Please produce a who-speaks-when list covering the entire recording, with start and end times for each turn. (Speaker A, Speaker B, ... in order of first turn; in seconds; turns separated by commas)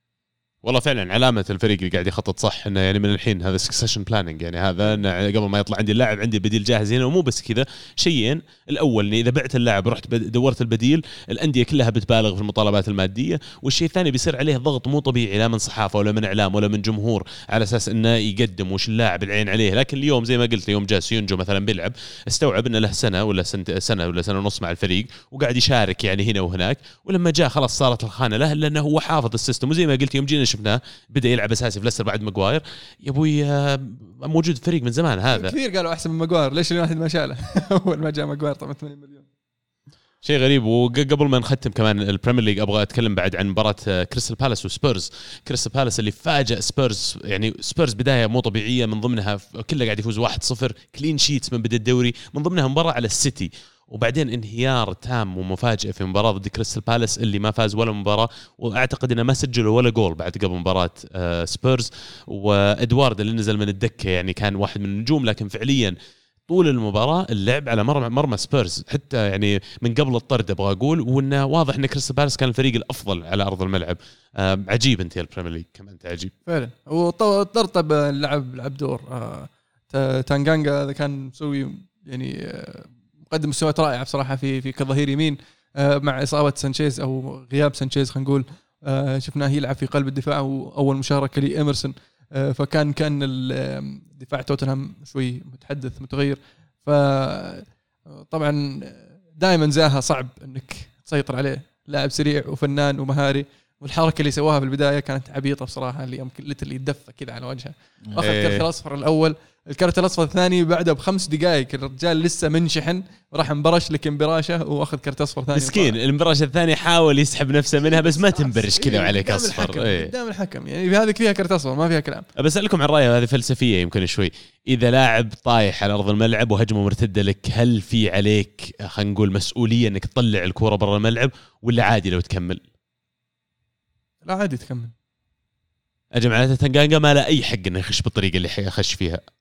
Speaker A: 0.6-35.5, Speaker B: 35.3-39.3, Speaker A: 40.2-66.0, Speaker A: 66.5-76.3, Speaker B: 76.5-116.0, Speaker A: 108.1-108.7, Speaker A: 115.5-120.1, Speaker B: 117.9-122.3, Speaker A: 122.4-132.6, Speaker B: 134.2-134.9, Speaker A: 136.1-139.2